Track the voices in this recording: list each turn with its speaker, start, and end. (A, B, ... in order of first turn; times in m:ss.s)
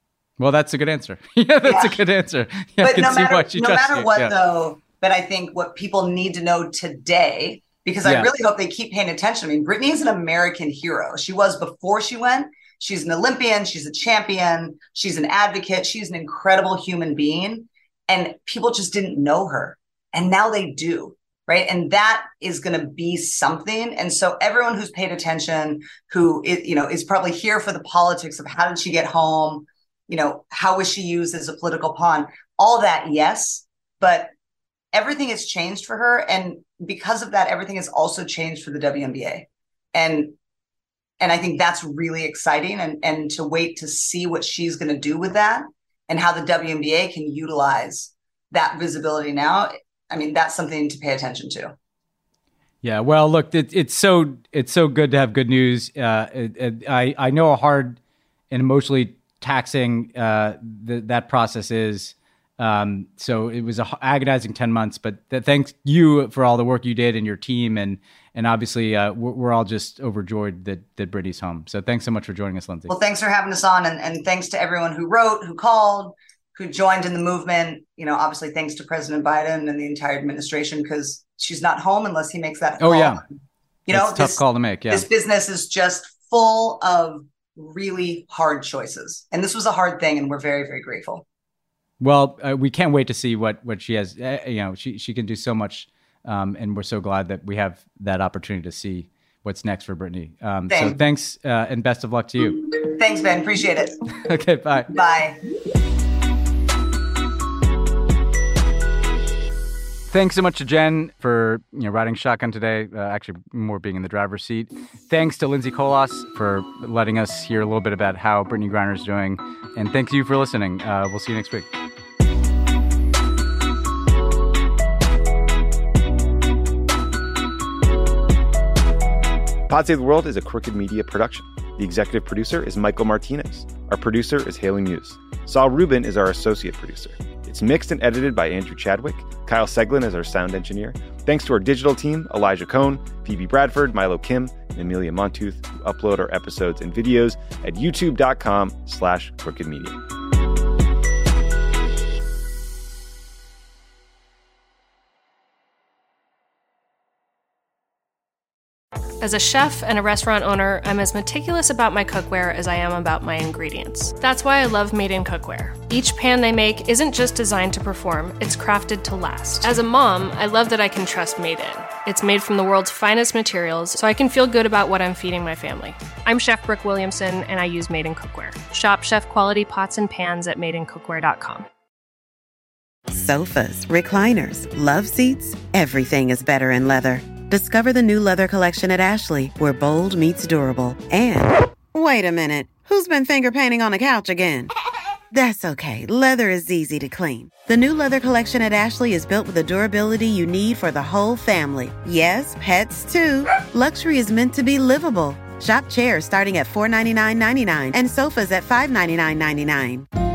0:00.4-0:04.3 A
0:01.6-0:02.0 B
0:02.8-0:34.3 B
0:08.0-0:08.3 A
0:34.9-0:40.3 B
0:41.2-0:51.7 B
0:52.8-0:58.0 A
0:58.5-1:12.9 A
1:12.9-1:23.2 B
1:22.8-1:23.2 A
1:23.9-1:31.2 B
1:23.9-1:25.1 A
1:32.0-1:42.6 A
1:40.7-1:41.0 B
1:42.7-1:44.0 B
1:44.2-1:44.9 A
1:44.9-1:45.4 B
1:50.1-2:01.7 A
2:09.7-2:30.0 C
2:39.2-3:01.7 D
3:03.1-3:14.7 E
3:15.3-3:30.1 E